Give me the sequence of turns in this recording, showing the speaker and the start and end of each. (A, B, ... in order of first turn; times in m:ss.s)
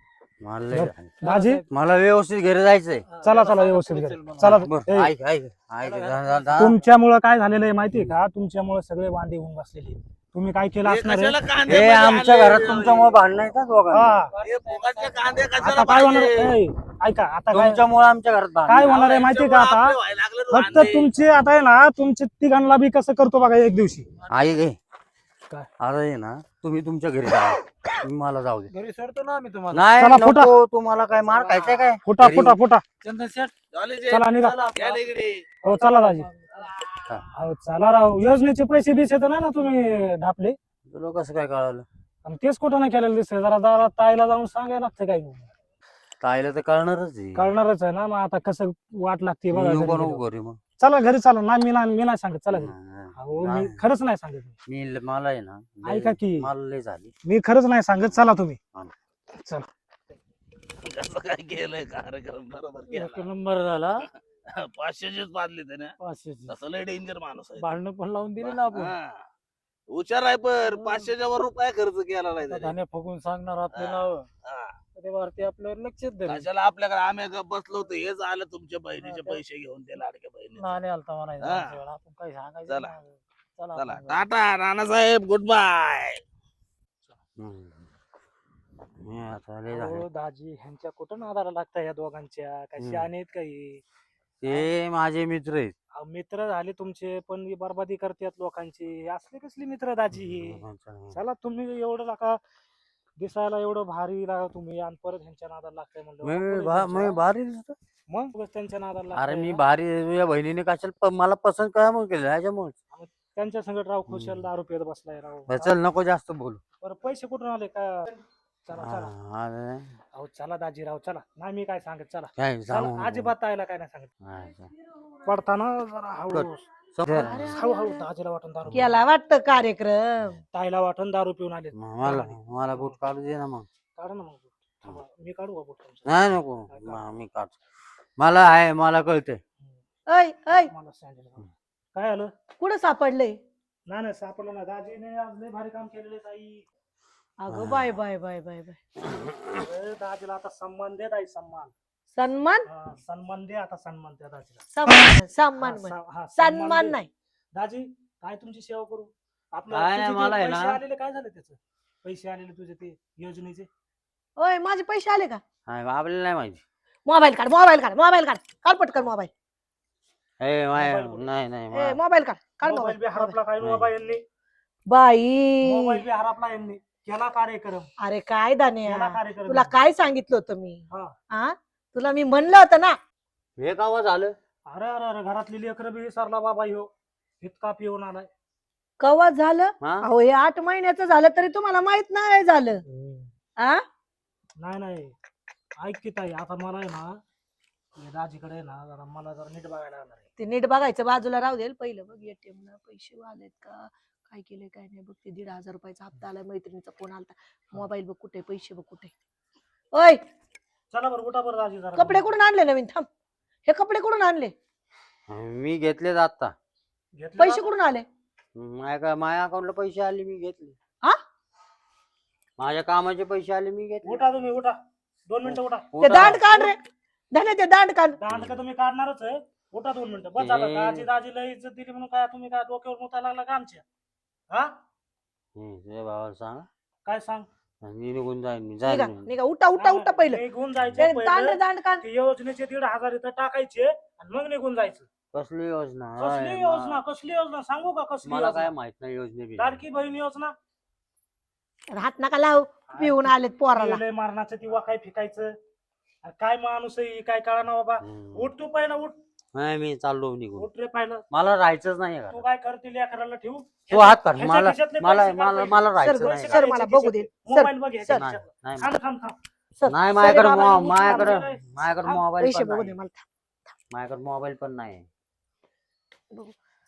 0:00.4-0:03.0 A
0:00.7-0:01.6 B
0:01.2-0:01.6 C
0:03.1-0:04.7 C
0:03.2-0:05.1 B
0:04.4-0:06.8 A
0:05.8-0:06.8 C
0:06.6-0:11.4 B
0:10.8-0:13.2 D
0:11.6-0:14.2 A
0:13.9-0:14.3 B
0:14.3-0:15.4 C
0:14.4-0:16.6 D
0:15.6-0:17.8 B
0:17.5-0:19.0 A
0:18.7-0:20.0 B
0:18.8-0:21.1 D
0:20.5-0:24.1 B
0:24.3-0:24.8 A
0:25.8-0:28.7 A
0:28.7-0:29.9 C
0:29.7-0:32.6 A
0:30.0-0:30.5 B
0:31.1-0:31.9 C
0:32.0-0:32.8 B
0:33.0-0:33.5 C
0:33.7-0:35.4 D
0:34.1-0:34.6 B
0:34.3-0:35.1 C
0:35.6-0:36.7 C
0:35.6-0:36.3 B
0:37.3-0:40.6 B
0:40.9-0:41.8 A
0:42.2-0:45.5 B
0:46.2-0:47.5 A
0:47.4-0:50.2 B
0:49.5-0:50.6 A
0:50.8-0:54.6 B
0:52.5-0:53.8 A
0:54.6-0:57.1 A
0:55.8-0:56.5 B
0:57.2-0:58.6 B
0:59.3-0:59.7 B
1:00.8-1:03.2 D
1:02.9-1:04.1 C
1:04.5-1:05.9 D
1:06.0-1:06.5 C
1:06.5-1:07.7 D
1:07.6-1:08.9 C
1:08.4-1:09.2 D
1:09.9-1:12.8 D
1:10.6-1:11.1 C
1:12.4-1:14.3 C
1:13.7-1:14.7 D
1:15.0-1:16.4 C
1:16.3-1:20.7 D
1:19.0-1:19.4 C
1:20.6-1:24.2 C
1:21.4-1:21.8 D
1:23.7-1:26.2 D
1:27.4-1:27.9 A
1:29.0-1:30.0 A
1:29.7-1:33.8 B
1:32.8-1:33.1 A
1:34.4-1:35.7 A
1:36.0-1:40.6 B
1:40.1-1:41.2 A
1:41.1-1:42.4 B
1:43.2-1:47.2 B
1:46.2-1:47.8 A
1:48.1-1:49.6 B
1:49.1-1:52.8 A
1:52.9-1:55.7 B
1:54.1-1:54.5 A
1:55.5-1:56.6 A
1:56.8-1:59.1 B
1:58.7-2:00.0 A
2:00.1-2:04.1 B
2:02.4-2:03.3 A
2:04.2-2:04.7 A
2:05.2-2:09.0 B
2:06.3-2:07.6 A
2:07.1-2:08.0 E
2:08.7-2:10.4 E
2:10.5-2:13.0 B
2:11.8-2:13.6 A
2:14.0-2:17.0 B
2:16.0-2:17.6 A
2:18.2-2:19.4 A
2:20.1-2:20.7 E
2:20.5-2:22.3 B
2:22.6-2:23.4 E
2:23.9-2:26.6 B
2:27.4-2:28.8 E
2:27.5-2:28.0 A
2:29.1-2:29.6 A
2:29.6-2:31.7 B
2:32.1-2:32.7 E
2:32.7-2:34.6 B
2:34.7-2:37.1 E
2:35.6-2:37.0 B
2:37.5-2:43.7 B
2:39.7-2:40.8 A
2:44.4-2:45.4 E
2:45.6-2:46.6 A
2:47.1-2:49.3 E
2:50.4-2:52.0 A
2:50.7-2:51.3 B
2:51.7-2:53.4 E
2:52.6-2:54.2 B
2:53.6-2:53.9 A
2:54.9-2:56.0 E
2:55.6-2:57.9 B
2:58.0-3:03.0 E
2:58.9-2:59.7 B
3:03.6-3:04.4 A
3:04.7-3:06.9 B
3:07.4-3:08.3 B
3:09.0-3:12.8 E
3:09.8-3:10.1 A
3:12.9-3:13.3 B
3:14.6-3:15.1 B
3:15.8-3:17.2 B
3:18.0-3:20.3 B
3:20.4-3:29.1 E
3:29.9-3:30.2 E
3:30.9-3:32.3 B
3:32.0-3:33.1 E
3:33.6-3:34.5 E
3:35.3-3:36.5 A
3:37.2-3:37.7 B
3:37.4-3:38.0 E
3:38.5-3:40.8 A
3:42.6-3:44.2 A
3:44.0-3:46.7 B
3:45.4-3:46.6 A
3:46.0-3:46.8 E
3:47.3-3:48.2 E
3:48.2-3:53.8 B
3:48.3-3:48.6 A
3:50.4-3:51.1 A
3:54.5-3:54.8 B
3:55.5-3:56.7 A
3:57.0-3:57.5 B
3:57.8-3:59.3 A
3:58.8-4:00.4 E
3:59.8-4:05.1 B
4:01.0-4:02.0 E
4:05.3-4:07.0 A
4:06.2-4:08.7 B
4:08.2-4:09.8 A
4:09.6-4:10.5 B
4:11.9-4:14.0 E
4:12.9-4:15.6 B
4:16.2-4:19.2 B
4:18.0-4:18.5 A
4:19.5-4:20.7 A
4:20.6-4:21.2 B
4:21.3-4:22.4 A
4:22.3-4:29.4 B
4:23.9-4:26.7 A
4:26.0-4:28.2 E
4:28.1-4:28.9 A
4:29.8-4:31.4 E
4:29.9-4:32.9 A
4:30.3-4:32.2 B
4:32.4-4:33.2 E
4:33.9-4:35.1 A